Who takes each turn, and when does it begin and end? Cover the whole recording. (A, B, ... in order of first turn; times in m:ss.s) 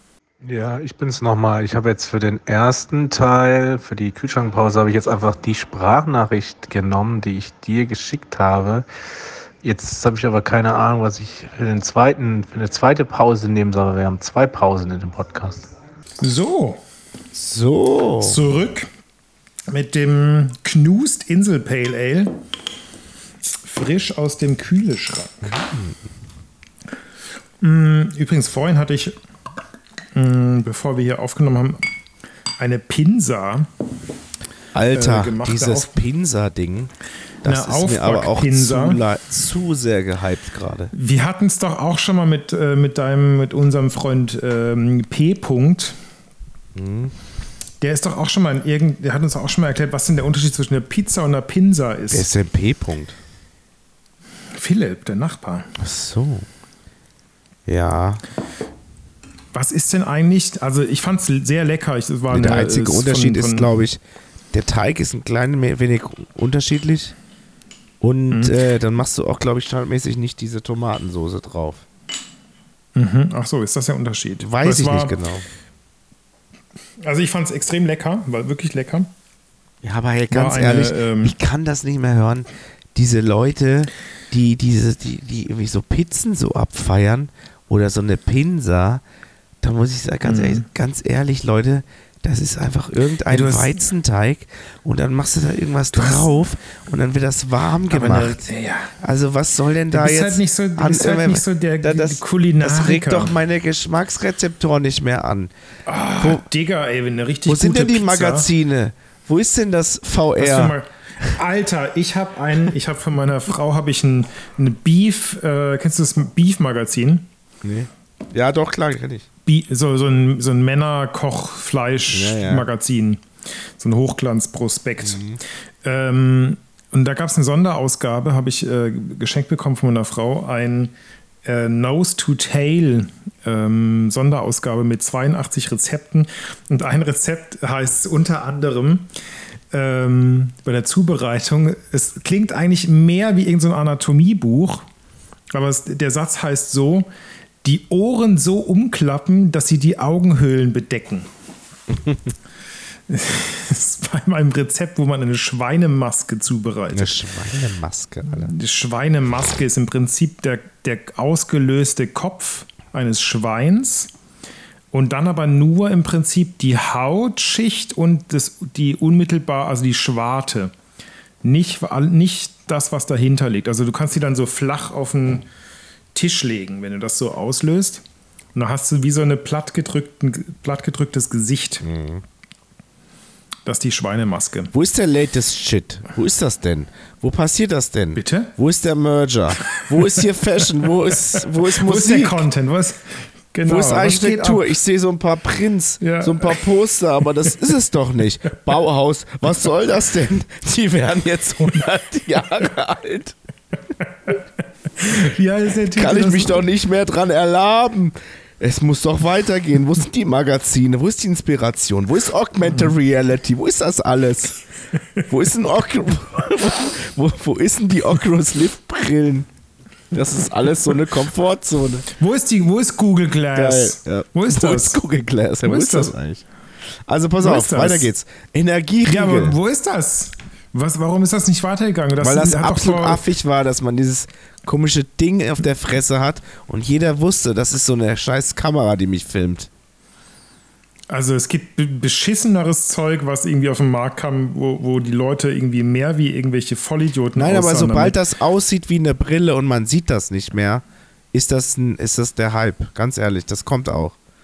0:00.4-0:08.8 A
0:09.6-0:15.7 A
0:16.2-0:16.8 B
0:17.3-0:18.4 C
0:18.2-0:18.9 B
0:19.7-0:22.4 B
0:23.6-0:25.6 B
0:25.4-0:26.0 C
0:27.6-0:29.2 B
0:30.1-0:31.8 B
0:32.6-0:33.7 B
0:34.7-0:36.9 C
0:34.9-0:36.0 B
0:37.4-0:40.9 C
0:37.4-0:39.0 B
0:40.9-0:46.0 B
0:46.7-0:47.1 C
0:47.8-0:52.3 B
0:52.1-0:53.2 C
0:54.5-0:55.7 B
0:55.8-0:56.4 C
0:57.7-0:58.2 C
0:59.5-1:03.8 B
1:02.3-1:04.0 C
1:04.5-1:07.1 C
1:08.0-1:11.8 C
1:08.3-1:08.6 B
1:13.0-1:15.2 B
1:14.4-1:15.4 C
1:17.0-1:19.1 B
1:19.8-1:29.0 C
1:20.3-1:21.4 B
1:29.6-1:38.4 C
1:30.2-1:30.7 B
1:33.3-1:33.8 B
1:35.9-1:36.3 B
1:37.9-1:38.9 B
1:39.0-1:45.5 C
1:39.9-1:43.3 B
1:45.8-1:48.5 B
1:47.4-1:50.8 C
1:50.4-1:57.3 B
1:57.6-1:59.3 C
1:59.4-2:03.2 B
2:02.1-2:02.7 C
2:03.8-2:05.2 B
2:05.0-2:05.4 C
2:05.8-2:10.9 B
2:11.4-2:19.0 B
2:19.7-2:24.8 B
2:25.5-2:27.1 B
2:27.6-2:31.3 B
2:33.1-2:37.2 B
2:36.9-2:38.5 C
2:38.3-2:44.1 B
2:44.9-2:50.7 B
2:51.4-2:55.4 B
2:56.1-2:58.0 B
2:58.5-3:01.8 B
3:01.8-3:02.2 C
3:03.6-3:04.7 B
3:04.7-3:12.5 C
3:08.1-3:08.5 B
3:09.7-3:10.6 B
3:11.3-3:14.7 B
3:13.6-3:23.4 C
3:16.0-3:16.6 B
3:25.0-3:26.6 B
3:25.9-3:34.6 C
3:35.3-3:39.5 C
3:40.1-3:42.1 C
3:42.1-3:45.0 B
3:43.6-3:49.6 C
3:45.6-3:46.1 B
3:47.4-3:48.1 B
3:49.0-3:53.2 B
3:52.2-3:59.7 C
4:01.1-4:08.2 B
4:07.4-4:14.2 C